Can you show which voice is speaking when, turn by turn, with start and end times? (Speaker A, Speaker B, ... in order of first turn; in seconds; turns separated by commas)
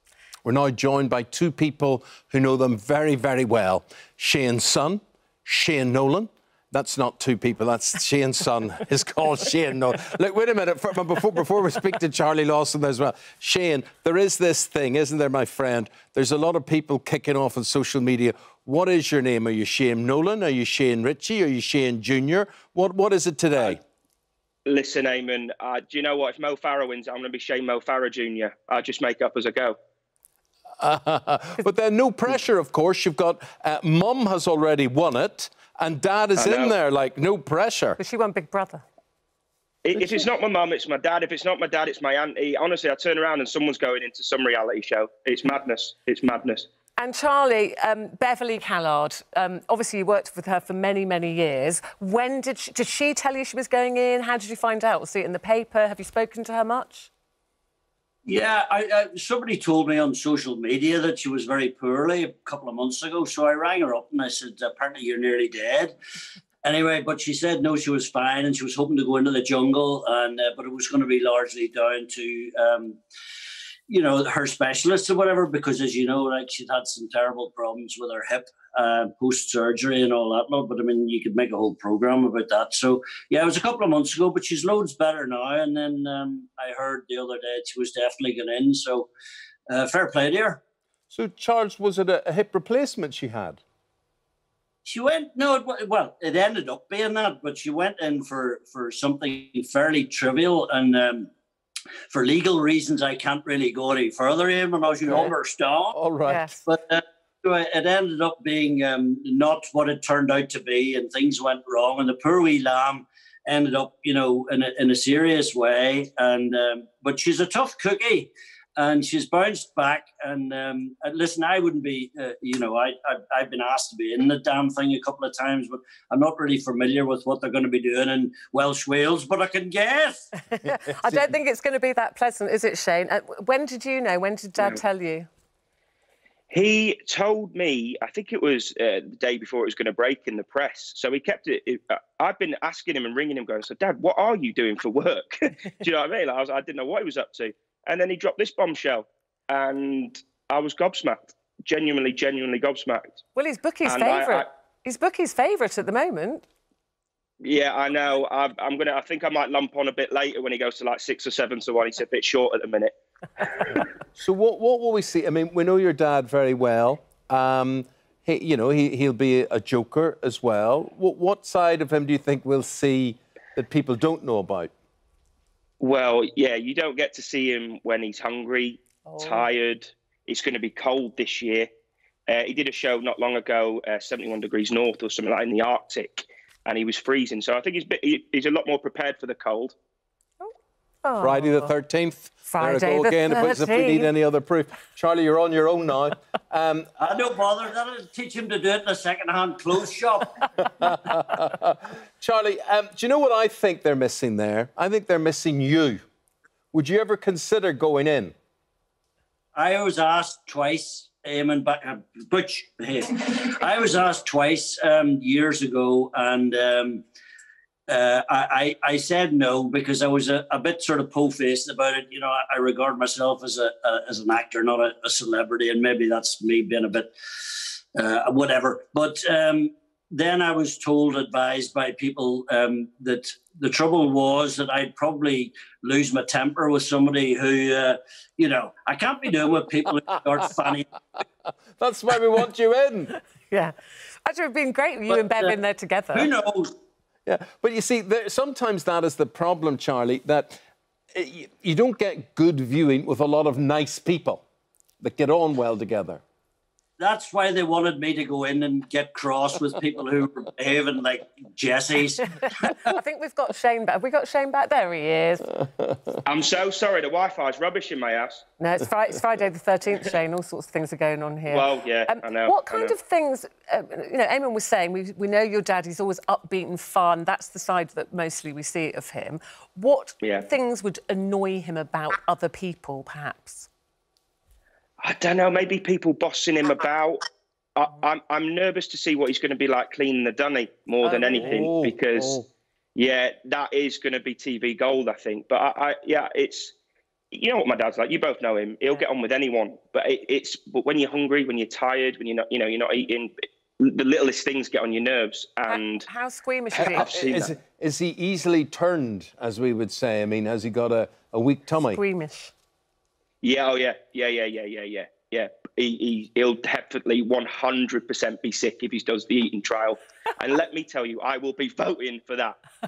Speaker A: 0.5-23.8, Speaker B: 24.7-29.8, Speaker A: 30.8-38.0, Speaker B: 36.4-36.8, Speaker C: 38.0-38.8, Speaker B: 39.9-46.7, Speaker C: 47.0-57.1, Speaker D: 58.3-65.9, Speaker D: 66.6-73.0, Speaker D: 73.9-89.1, Speaker D: 89.7-90.6, Speaker A: 91.1-93.6, Speaker D: 94.8-101.3, Speaker D: 102.1-106.0, Speaker A: 105.1-105.3, Speaker A: 105.9-106.5, Speaker C: 106.2-106.6, Speaker D: 106.7-130.3, Speaker C: 130.5-135.3, Speaker A: 130.9-131.3, Speaker B: 136.5-153.2, Speaker C: 153.3-156.4, Speaker B: 153.8-154.4, Speaker B: 157.4-162.9, Speaker A: 164.2-174.7, Speaker B: 175.8-181.7, Speaker C: 179.1-179.5, Speaker B: 182.3-189.8, Speaker C: 191.0-191.7, Speaker A: 191.2-196.9, Speaker C: 192.5-194.1, Speaker D: 197.0-200.4, Speaker A: 200.8-206.0, Speaker A: 206.7-208.3, Speaker D: 209.6-217.0, Speaker D: 217.9-240.9, Speaker A: 241.8-243.1, Speaker C: 243.5-246.3, Speaker D: 245.1-245.6, Speaker D: 246.1-246.7, Speaker A: 247.3-250.6, Speaker A: 251.2-254.4, Speaker A: 255.0-256.2, Speaker D: 257.0-262.6, Speaker C: 262.8-265.5, Speaker B: 266.3-268.4, Speaker C: 268.6-283.7, Speaker B: 271.5-272.9, Speaker B: 285.0-287.2, Speaker B: 287.8-292.4, Speaker C: 291.0-291.7, Speaker A: 291.3-292.4, Speaker B: 293.0-296.7, Speaker B: 297.3-306.1, Speaker C: 305.7-307.1, Speaker B: 306.7-307.5, Speaker A: 306.8-312.0, Speaker C: 311.8-312.5, Speaker B: 313.4-322.6